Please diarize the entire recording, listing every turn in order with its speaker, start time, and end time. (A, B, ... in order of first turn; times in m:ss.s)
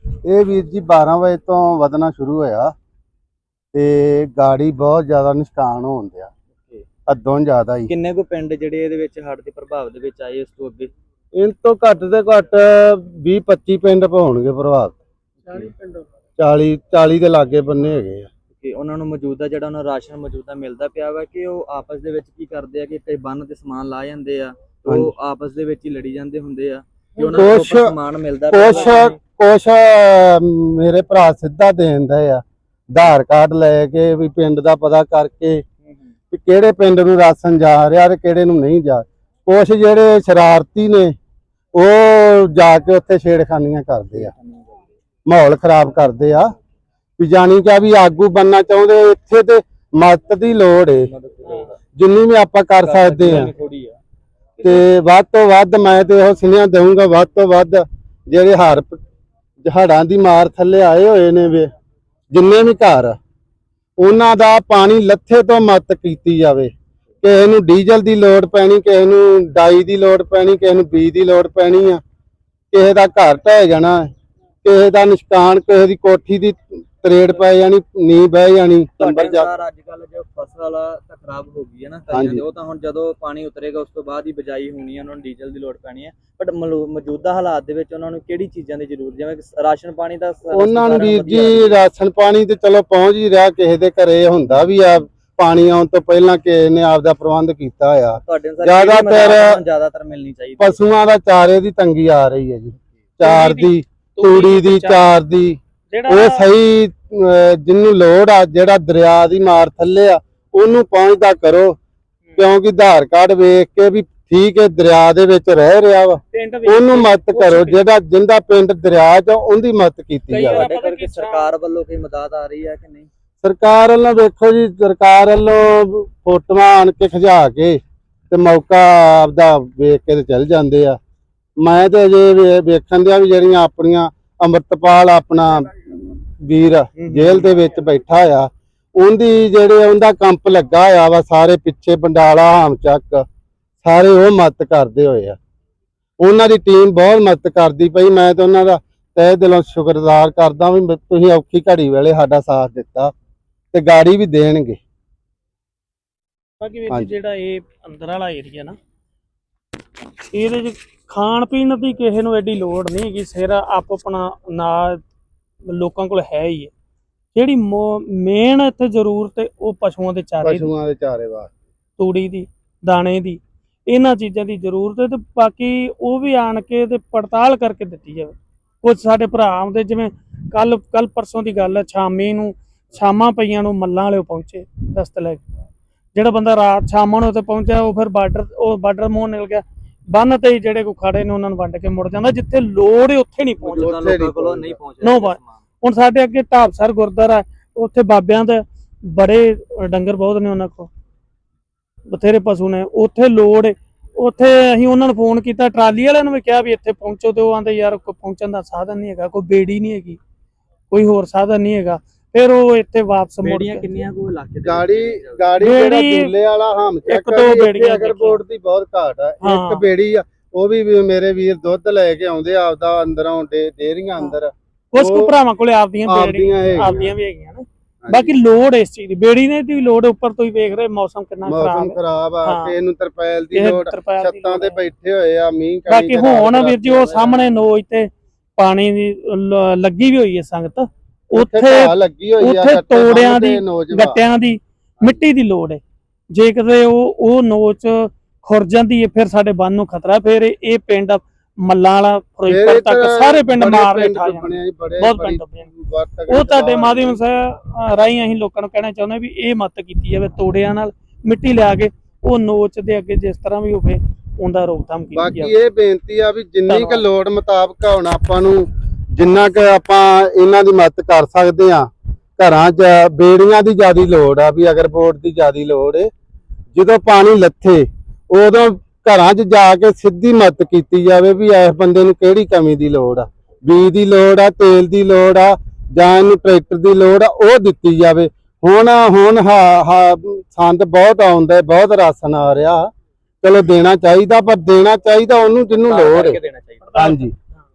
0:00.3-0:02.7 A
0:03.7-0:06.3 A
0:07.1-0:07.9 A
0:07.9-0:10.9 B
0:11.3-0:14.9 A
0:15.5-0:15.7 B
0:15.6-0:16.0 C
0:16.4-0:18.3 A
0:18.6-0:29.2 B
0:27.3-0:27.9 A
0:28.5-0:35.6 A
0:28.7-0:29.0 C
0:36.3-0:41.1 A
0:41.7-0:44.3 A
0:44.1-0:44.8 B
0:45.2-0:46.5 A
0:47.2-0:51.1 A
0:51.0-0:51.7 B
0:52.0-0:53.5 A
0:52.8-0:54.0 B
0:54.6-0:59.0 A
0:59.6-1:01.7 A
1:02.3-1:03.2 A
1:04.0-1:06.7 A
1:07.2-1:12.0 A
1:12.7-1:14.1 A
1:14.6-1:19.5 A
1:19.0-1:31.8 B
1:22.1-1:22.4 A
1:30.5-1:39.6 A
1:38.1-1:40.8 B
1:40.6-1:51.8 A
1:43.2-1:45.1 C
1:45.9-1:46.4 C
1:52.4-2:00.6 A
1:56.3-1:57.8 C
2:00.3-2:01.5 C
2:00.4-2:03.1 B
2:03.4-2:11.0 A
2:11.6-2:15.8 A
2:16.4-2:23.2 A
2:17.0-2:17.5 C
2:23.8-2:25.4 A
2:26.2-2:33.1 A
2:33.7-2:34.8 A
2:36.6-2:38.8 C
2:40.2-2:45.0 C
2:45.6-2:46.7 C
2:47.3-2:50.7 C
2:50.4-2:51.5 A
2:52.0-3:05.4 C
3:06.1-3:14.0 C
3:13.6-3:15.6 B
3:13.8-3:14.8 A
3:15.0-3:20.9 C
3:22.1-3:30.2 C
3:30.9-3:34.0 C
3:33.4-3:35.5 B
3:34.6-3:45.3 A
3:35.6-3:36.3 C
3:37.1-3:38.4 C
3:39.4-3:39.8 C
3:44.9-3:52.7 C
3:46.0-3:47.1 A
3:48.0-3:48.3 A
3:51.4-3:57.5 A
3:53.5-3:54.8 C
3:55.9-4:15.7 C
4:01.3-4:04.2 A
4:12.5-4:17.2 A
4:16.3-4:25.5 C
4:25.1-4:36.1 A
4:26.7-4:27.0 C
4:36.7-4:52.9 A
4:53.4-4:56.4 A
4:55.7-4:57.0 B
4:56.9-4:57.2 C
4:57.0-4:57.3 A